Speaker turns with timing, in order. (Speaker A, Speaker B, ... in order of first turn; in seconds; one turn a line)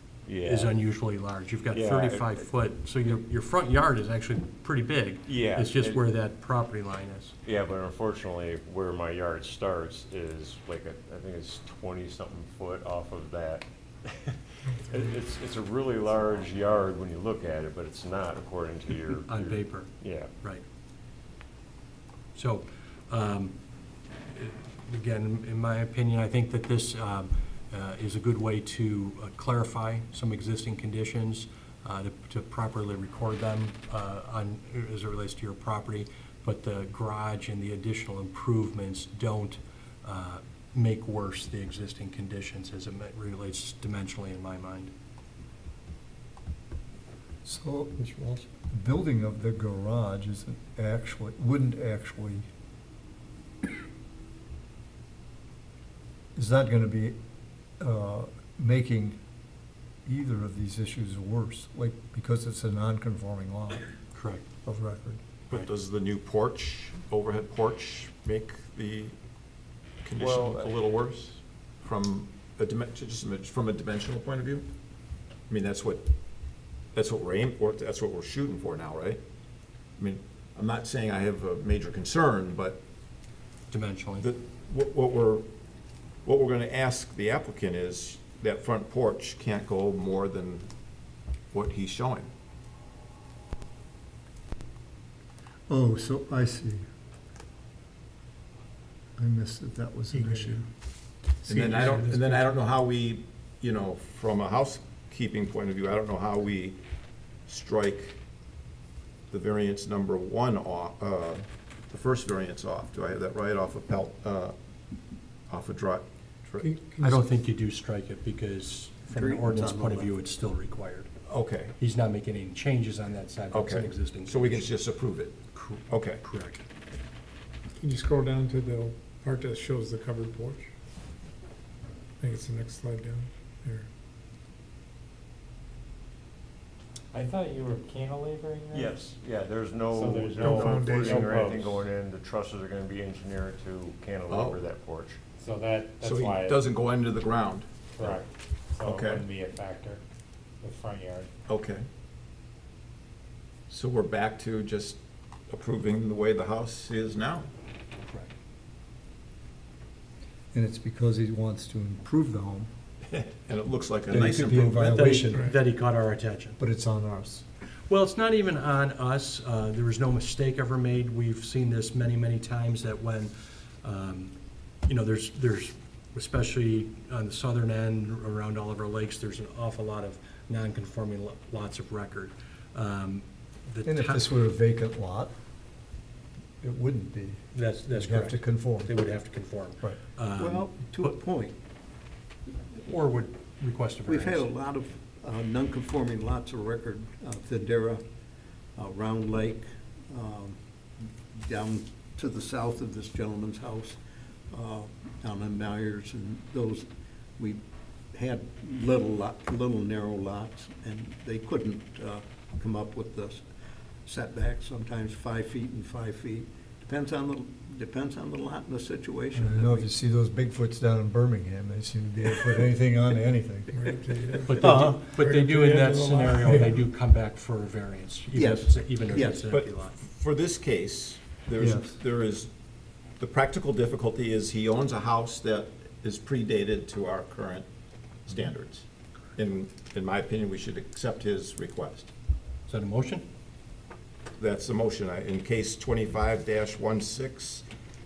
Speaker A: 0.3-0.7
Speaker B: 0.4-7.3
Speaker A: 1.7-2.4
Speaker A: 5.3-6.0
Speaker A: 7.5-20.3
Speaker B: 19.3-20.6
Speaker B: 22.4-23.6
Speaker B: 24.3-44.9
Speaker C: 47.4-52.4
Speaker C: 56.4-57.2
Speaker C: 57.8-59.2
Speaker C: 60.1-63.9
Speaker B: 64.1-64.4
Speaker C: 64.7-65.2
Speaker D: 65.5-69.2
Speaker D: 70.0-74.7
Speaker A: 70.2-70.8
Speaker D: 75.5-76.1
Speaker D: 77.0-79.2
Speaker D: 80.0-82.8
Speaker B: 83.7-84.3
Speaker D: 84.2-85.5
Speaker D: 86.2-90.7
Speaker D: 91.5-92.3
Speaker C: 95.7-96.8
Speaker C: 99.2-100.7
Speaker E: 100.1-100.6
Speaker D: 101.5-106.8
Speaker E: 101.6-102.3
Speaker D: 107.5-108.2
Speaker D: 109.3-114.5
Speaker D: 115.5-116.7
Speaker E: 116.6-117.3
Speaker B: 117.0-121.1
Speaker F: 119.1-120.1
Speaker D: 121.3-121.7
Speaker B: 121.8-124.7
Speaker D: 123.5-126.2
Speaker B: 125.5-126.6
Speaker E: 127.8-130.7
Speaker E: 132.2-133.9
Speaker G: 137.1-139.0
Speaker A: 138.7-145.2
Speaker G: 139.9-141.8
Speaker E: 140.3-141.5
Speaker D: 144.3-144.6
Speaker G: 145.4-146.6
Speaker D: 146.0-147.7
Speaker G: 148.0-150.0
Speaker D: 148.8-149.3
Speaker G: 150.6-151.3
Speaker D: 151.5-151.8
Speaker D: 153.7-157.5
Speaker C: 160.5-162.7
Speaker D: 163.1-165.2
Speaker C: 164.1-165.5
Speaker B: 164.8-166.6
Speaker E: 165.3-165.6
Speaker C: 166.6-167.4
Speaker B: 167.9-184.2
Speaker C: 183.8-185.3
Speaker C: 186.6-188.9
Speaker B: 187.5-191.1
Speaker F: 190.4-191.6
Speaker B: 192.8-194.5
Speaker F: 194.1-198.0
Speaker F: 198.8-200.6
Speaker F: 201.3-204.0
Speaker F: 204.5-206.9
Speaker F: 208.1-213.4
Speaker F: 214.1-219.9
Speaker C: 219.3-223.8
Speaker E: 223.7-226.8
Speaker B: 224.4-230.0
Speaker F: 224.6-225.0
Speaker F: 228.3-229.4
Speaker D: 229.5-232.5
Speaker C: 231.6-232.0
Speaker D: 233.2-237.7
Speaker D: 238.3-242.1
Speaker B: 242.7-243.2
Speaker D: 244.4-247.7